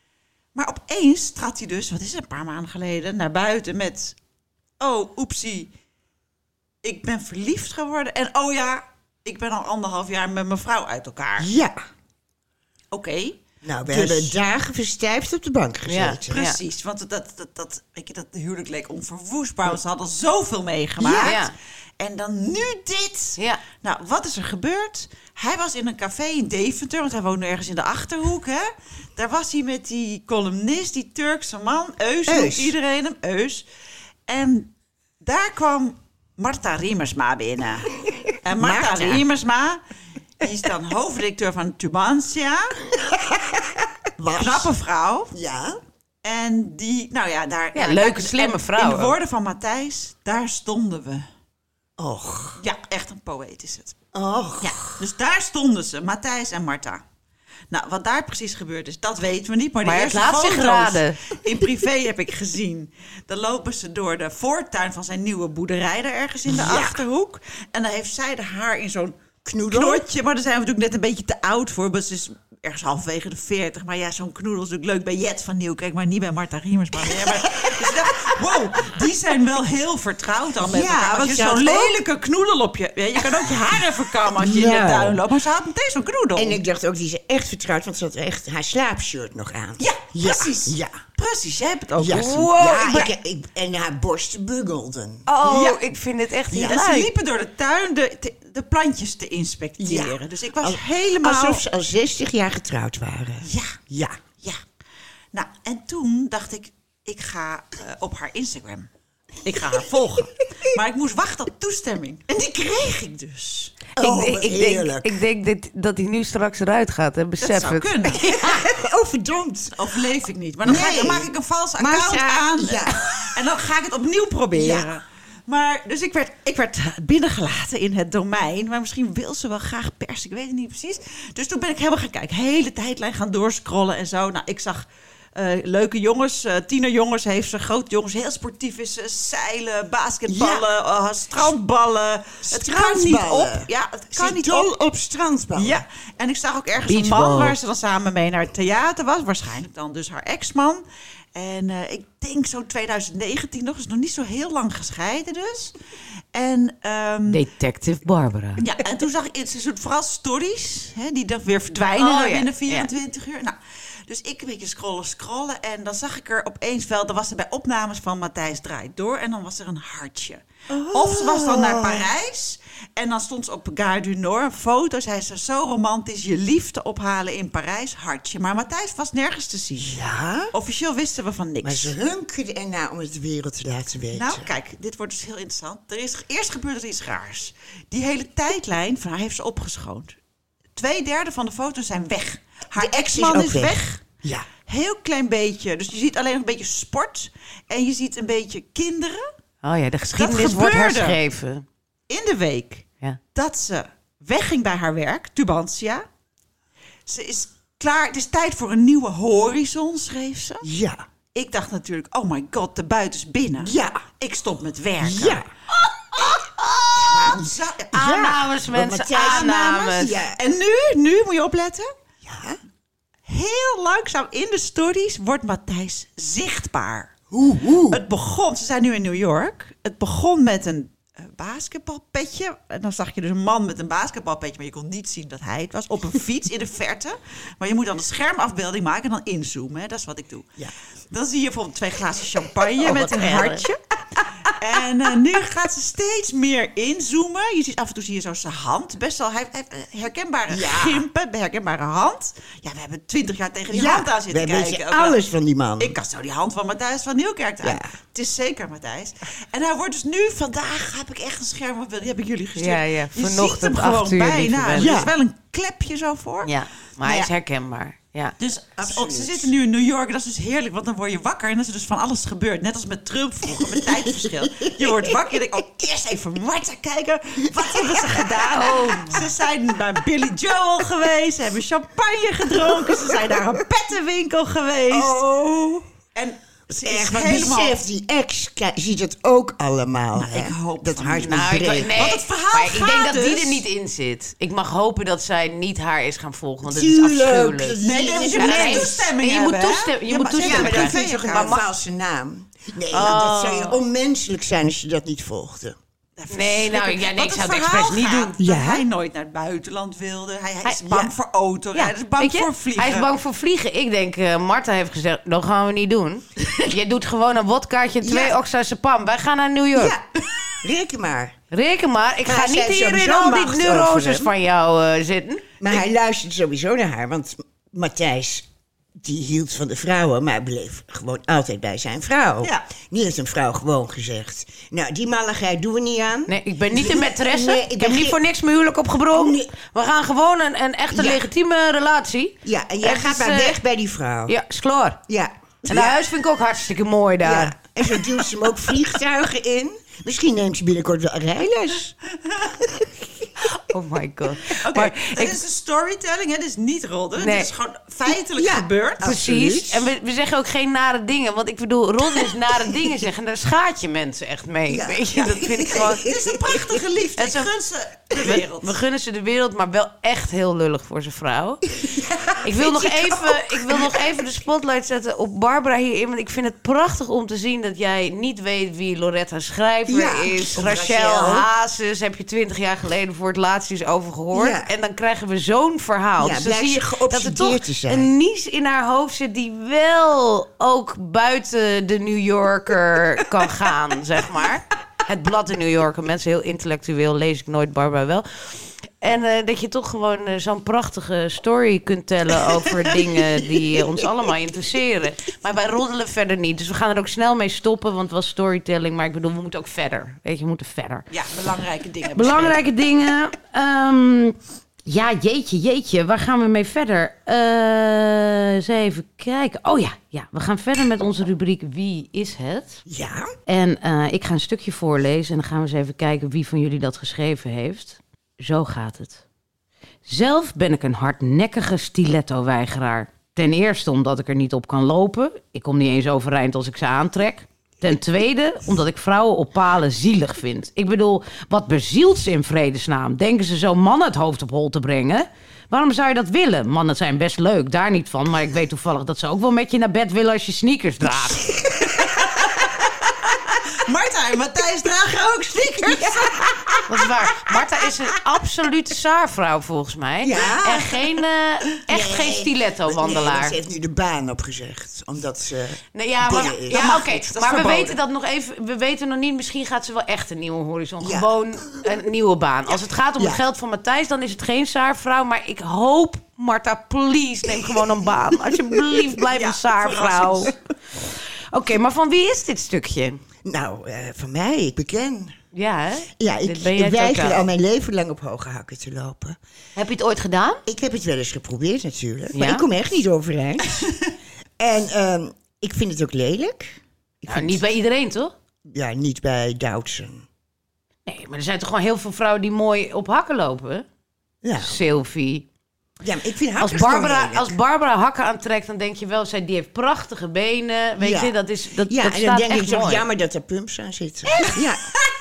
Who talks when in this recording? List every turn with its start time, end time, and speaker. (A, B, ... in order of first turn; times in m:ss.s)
0:00.6-0:04.2 A
0:04.8-0:05.7 A
0:06.8-0:11.5 A
0:11.4-0:11.8 B
0:12.9-0:14.4 A
0:13.6-0:16.4 B
0:15.9-0:16.6 C
0:16.3-0:33.6 A
0:21.0-0:21.4 B
0:21.2-0:21.5 C
0:23.4-0:23.6 C
0:32.3-0:32.8 B
0:34.3-0:37.9 A
0:38.0-0:39.2 B
0:38.4-0:39.8 A
0:40.4-0:42.8 A
0:42.9-0:44.7 B
0:44.4-0:45.3 A
0:45.3-0:45.8 B
0:46.2-0:51.3 A
0:47.8-0:49.2 C
0:52.0-0:52.6 B
0:52.6-0:54.0 A
0:54.1-0:55.0 B
0:54.6-0:57.0 A
0:57.7-1:09.2 A
0:59.8-1:01.2 C
1:06.5-1:07.0 B
1:09.4-1:10.0 B
1:09.7-1:26.6 A
1:17.0-1:18.5 B
1:20.6-1:22.0 B
1:23.2-1:25.2 B
1:26.4-1:31.0 B
1:29.8-1:33.1 A
1:32.0-1:35.3 B
1:35.3-1:37.1 C
1:35.4-1:35.9 A
1:36.5-1:41.6 A
1:39.8-1:44.2 B
1:43.4-1:43.8 A
1:45.3-1:48.9 A
1:49.4-1:53.8 A
1:54.0-1:55.2 B
1:54.0-1:58.2 C
1:57.4-1:58.4 A
1:58.1-1:59.9 B
1:59.8-2:24.7 A
2:00.6-2:03.3 B
2:04.5-2:04.9 B
2:20.3-2:20.7 B
2:22.5-2:25.8 B
2:25.5-2:30.8 A
2:26.9-2:27.6 C
2:31.4-2:35.8 A
2:36.3-2:37.4 A
2:37.3-2:38.6 C
2:38.6-2:43.6 A
2:42.0-2:42.9 C
2:44.1-3:02.0 A
2:50.7-2:52.1 B
2:59.8-3:00.5 B
3:01.6-3:04.5 B
3:04.1-3:10.2 A
3:10.8-3:14.1 A
3:12.8-3:14.5 B
3:14.7-3:19.3 A
3:19.6-3:21.6 C
3:20.2-3:21.2 A
3:22.1-3:26.0 A
3:27.1-3:30.7 A
3:30.6-3:31.0 B
3:31.3-3:35.4 A
3:33.6-3:34.0 B
3:35.0-3:35.5 B
3:36.2-3:38.3 A
3:37.0-3:40.4 B
3:38.0-3:40.2 C
3:39.1-3:39.8 A
3:40.4-3:41.9 A
3:42.2-3:42.6 B
3:43.3-3:47.2 A
3:47.3-3:48.0 B
3:47.9-4:00.6 A
4:01.1-4:03.8 A
4:02.8-4:03.6 B
4:04.5-4:15.2 A
4:10.5-4:11.0 B
4:13.7-4:16.0 B
4:15.8-4:26.5 A
4:17.6-4:17.9 B
4:22.6-4:25.0 C
4:24.8-4:25.1 B
4:26.4-4:28.4 C
4:28.4-4:45.2 A
4:28.8-4:29.5 B
4:33.5-4:35.2 B
4:37.6-4:39.2 B
4:38.7-4:39.1 C
4:42.5-4:43.4 B
4:44.9-4:45.9 B
4:46.2-4:47.8 A
4:46.7-4:52.1 B
4:50.2-4:53.6 A
4:51.2-4:57.8 C
4:56.6-4:59.1 B
4:57.8-5:01.6 A
4:58.3-5:01.6 C
5:00.4-5:05.8 B
5:02.9-5:03.8 C
5:03.0-5:03.6 A
5:06.2-5:13.1 A
5:06.3-5:08.4 C
5:08.4-5:08.8 B
5:10.6-5:11.1 C
5:11.7-5:20.0 C
5:18.0-5:18.4 B
5:19.8-5:20.0 B
5:20.6-5:21.4 B
5:21.5-5:25.4 C
5:22.2-5:24.3 B
5:25.6-5:38.2 B
5:36.3-5:43.6 C
5:39.1-5:39.5 B
5:40.9-5:41.3 B
5:42.4-5:44.4 B
5:44.3-5:45.0 C
5:45.1-5:46.0 B
5:45.7-5:47.6 C
5:47.2-5:52.0 B
5:52.6-5:52.9 B
5:53.6-5:55.4 C
5:54.4-5:59.2 A
5:57.2-5:57.5 C
5:58.3-5:59.9 B
5:59.0-6:06.0 C
6:02.2-6:02.9 B
6:04.7-6:06.8 B
6:05.6-6:08.8 A
6:07.2-6:07.5 C
6:08.2-6:11.6 C
6:11.7-6:14.2 B
6:12.4-6:51.1 C
6:19.9-6:21.5 B
6:24.3-6:24.7 B
6:26.2-6:28.1 B
6:51.1-6:52.6 A
6:52.1-7:02.8 C
7:02.9-7:03.3 B
7:03.5-7:09.2 C
7:10.0-7:31.5 C
7:31.2-7:32.8 B
7:31.9-7:36.8 A
7:35.8-7:36.8 B
7:36.9-7:43.6 C
7:40.2-7:41.1 B
7:41.9-7:47.0 B
7:46.0-8:00.5 C
7:46.7-7:48.0 A
7:51.0-7:52.0 B
7:57.5-7:58.9 B
7:59.3-8:00.6 A
8:01.5-8:03.2 C
8:03.4-8:05.4 B
8:05.5-8:07.5 C
8:06.2-8:09.4 B
8:09.8-8:10.6 C
8:10.7-8:13.9 B
8:12.3-8:12.7 C
8:14.6-8:17.6 B
8:17.3-8:18.3 C
8:18.7-8:20.3 B
8:21.1-8:23.9 C
8:24.4-8:24.8 B
8:24.6-8:25.5 C
8:26.0-8:27.6 B
8:26.6-8:33.0 C
8:31.0-8:34.9 B
8:34.3-8:34.6 C